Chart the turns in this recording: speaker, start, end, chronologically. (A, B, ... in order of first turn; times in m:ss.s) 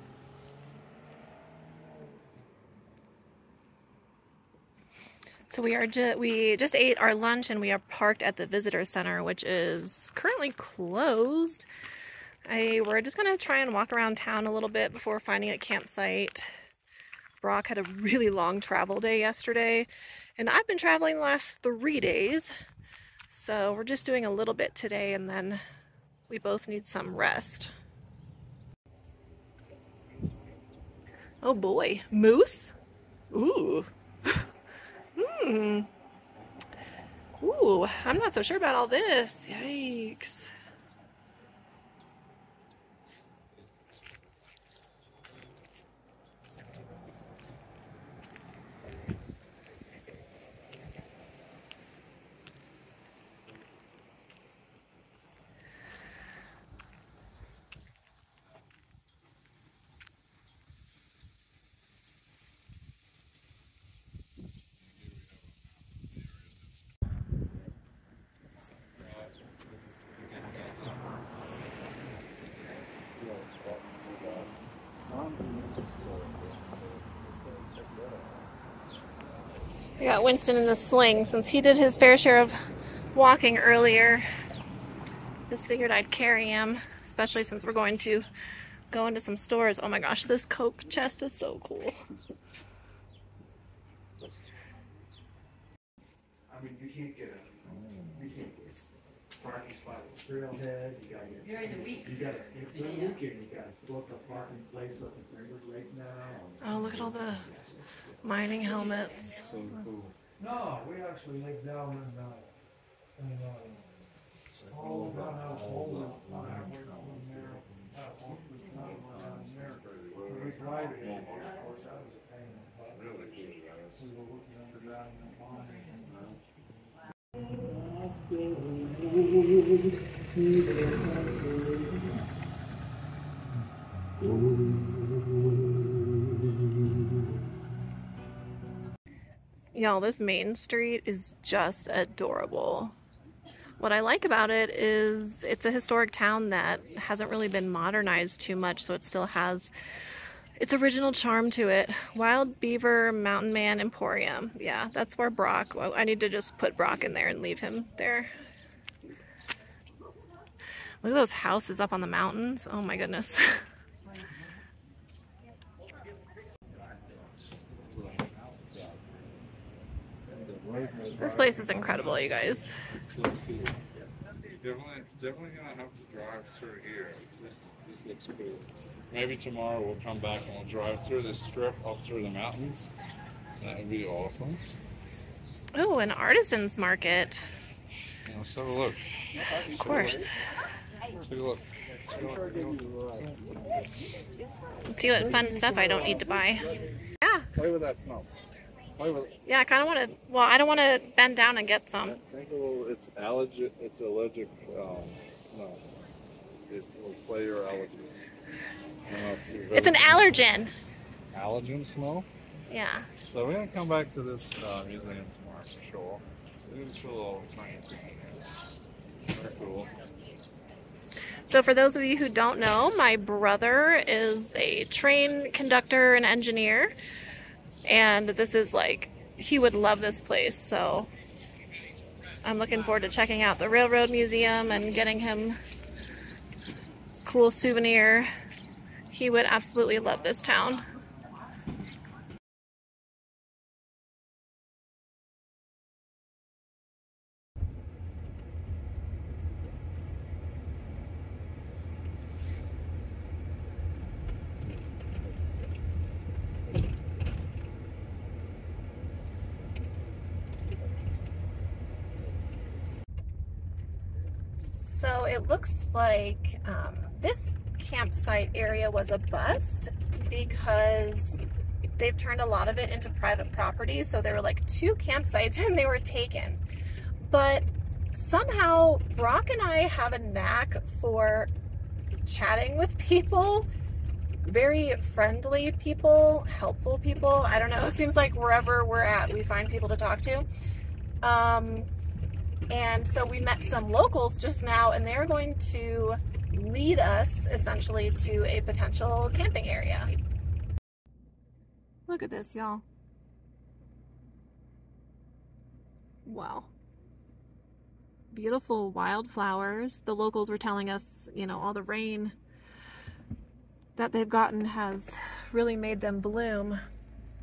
0:05.5-0:11.7 A
0:12.5-0:16.5 A
0:17.4-0:22.5 A
0:23.3-0:25.6 A
0:26.3-0:27.7 A
0:31.4-0:32.7 A
0:33.3-0:34.4 A
0:35.2-0:35.9 A
0:37.4-0:40.5 A
1:04.8-1:06.8 B
1:09.0-1:09.4 B
1:10.2-1:11.0 B
1:13.2-1:14.5 B
1:15.1-1:17.0 B
1:20.0-1:22.5 A
1:23.1-1:24.2 A
1:25.5-1:28.2 A
1:28.9-1:31.9 A
1:36.5-1:46.6 C
1:37.6-1:38.3 B
1:46.6-1:47.5 A
1:46.7-1:47.2 B
1:48.2-1:49.4 A
1:49.4-1:50.2 B
1:50.4-1:52.0 C
1:54.5-1:57.9 B
1:57.9-1:58.6 C
1:58.6-2:01.7 B
2:00.8-2:03.0 C
2:02.9-2:04.1 B
2:04.1-2:06.0 C
2:06.0-2:06.4 B
2:19.7-2:22.9 A
2:23.8-2:29.7 A
2:30.6-2:38.3 A
2:41.0-2:43.6 A
2:47.7-2:49.2 B
2:50.3-2:53.8 B
2:51.2-2:52.7 A
2:54.6-3:02.9 B
3:03.6-3:04.6 B
3:05.7-3:07.4 A
3:08.2-3:10.3 B
3:09.7-3:10.3 A
3:11.2-3:13.8 B
3:14.9-3:17.4 A
3:15.1-3:16.3 B
3:17.5-3:18.3 B
3:19.0-3:19.4 B
3:19.4-3:22.2 A
3:22.0-3:25.8 B
3:26.7-3:28.2 B
3:29.0-3:30.4 B
3:29.7-3:30.7 A
3:31.3-3:32.3 B
3:32.7-3:33.1 A
3:33.3-3:38.4 B
3:39.3-3:39.9 B
3:41.5-3:46.9 A
3:47.8-3:51.1 A
3:52.4-3:55.6 A
3:57.2-3:58.3 A
3:59.1-4:00.8 A
4:24.8-4:31.4 A
4:32.0-4:36.6 A
4:37.3-4:41.5 A
4:42.2-4:43.7 A
4:44.4-4:50.5 A
4:51.2-4:51.9 A
4:52.7-5:00.1 A
5:02.1-5:02.8 A
5:06.2-5:06.7 A
5:08.3-5:12.4 A
5:14.0-5:16.8 A